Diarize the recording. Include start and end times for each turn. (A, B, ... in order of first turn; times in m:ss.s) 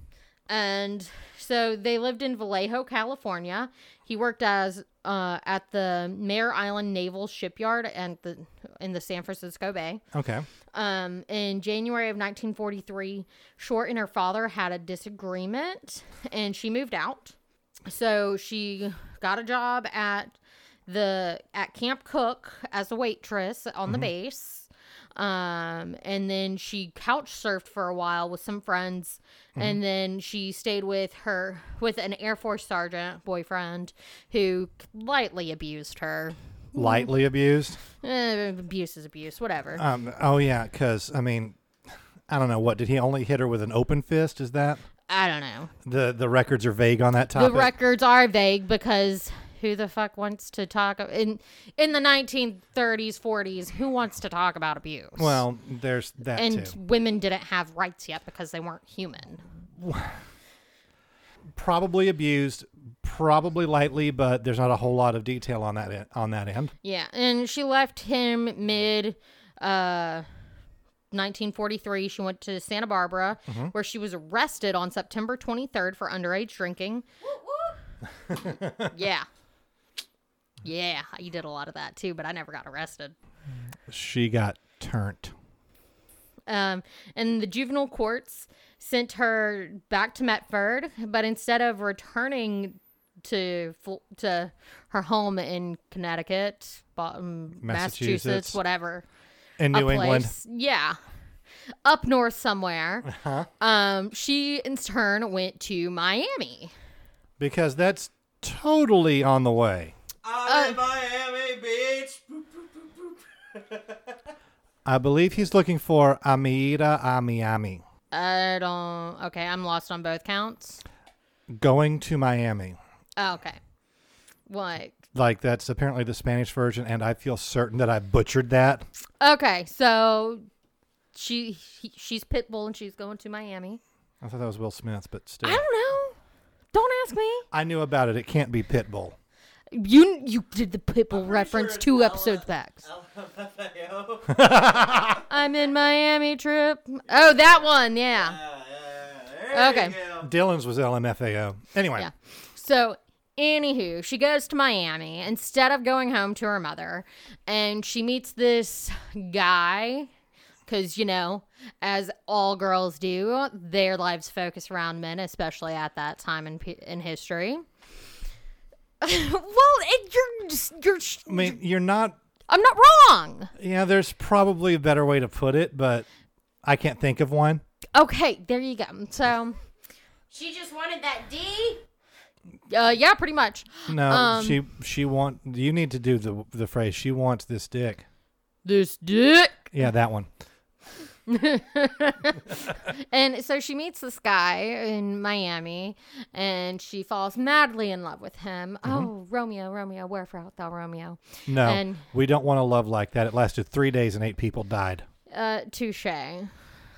0:00.5-0:10.0 A
0:10.1-0:10.5 B
0:10.7-0:17.4 A
0:17.9-0:20.4 A
0:20.9-0:37.1 A
0:36.8-0:37.8 B
0:38.0-0:39.8 A
0:39.8-0:41.6 B
0:42.3-0:44.8 B
0:45.1-0:45.7 A
0:45.8-0:47.7 B
0:47.3-0:55.4 A
0:55.2-0:56.8 B
0:56.3-0:59.4 A
0:59.8-1:00.2 B
1:01.5-1:06.7 B
1:06.8-1:10.3 A
1:11.1-1:17.2 A
1:13.5-1:13.7 B
1:17.3-1:17.8 C
1:18.3-1:18.9 B
1:18.9-1:19.3 A
1:20.6-1:23.2 A
1:23.9-1:25.3 B
1:26.5-1:39.0 A
1:37.6-1:38.6 B
1:39.6-1:40.3 B
1:39.7-1:41.0 A
1:41.8-1:46.7 A
1:43.1-1:43.5 B
1:47.4-1:50.0 B
1:50.2-1:53.2 D
1:50.4-1:50.8 A
1:54.8-1:57.8 B
1:58.1-2:00.8 A
2:01.5-2:02.8 B
2:03.2-2:03.6 A
2:04.5-2:05.1 A
2:05.1-2:08.9 B
2:09.2-2:10.4 A
2:11.1-2:13.8 A
2:14.2-2:15.6 B
2:15.4-2:16.2 A
2:16.7-2:17.5 A
2:17.5-2:19.2 B
2:19.7-2:22.8 A
2:21.1-2:24.5 D
2:24.3-2:25.2 B
2:25.3-2:28.4 A
2:28.3-2:30.3 D
2:29.5-2:30.0 A
2:30.2-2:32.1 B
2:32.0-2:40.1 A
2:40.7-2:47.6 A
2:49.0-2:51.6 A
2:51.3-2:52.2 B
2:52.5-2:53.5 A
2:53.6-2:56.1 B
2:56.6-2:57.6 B
2:57.9-2:59.6 A
3:00.3-3:01.8 C
3:02.7-3:04.6 A
3:03.9-3:08.0 B
3:08.6-3:09.7 A
3:09.7-3:10.3 B
3:11.3-3:22.0 A
3:21.5-3:25.1 B
3:25.3-3:26.5 A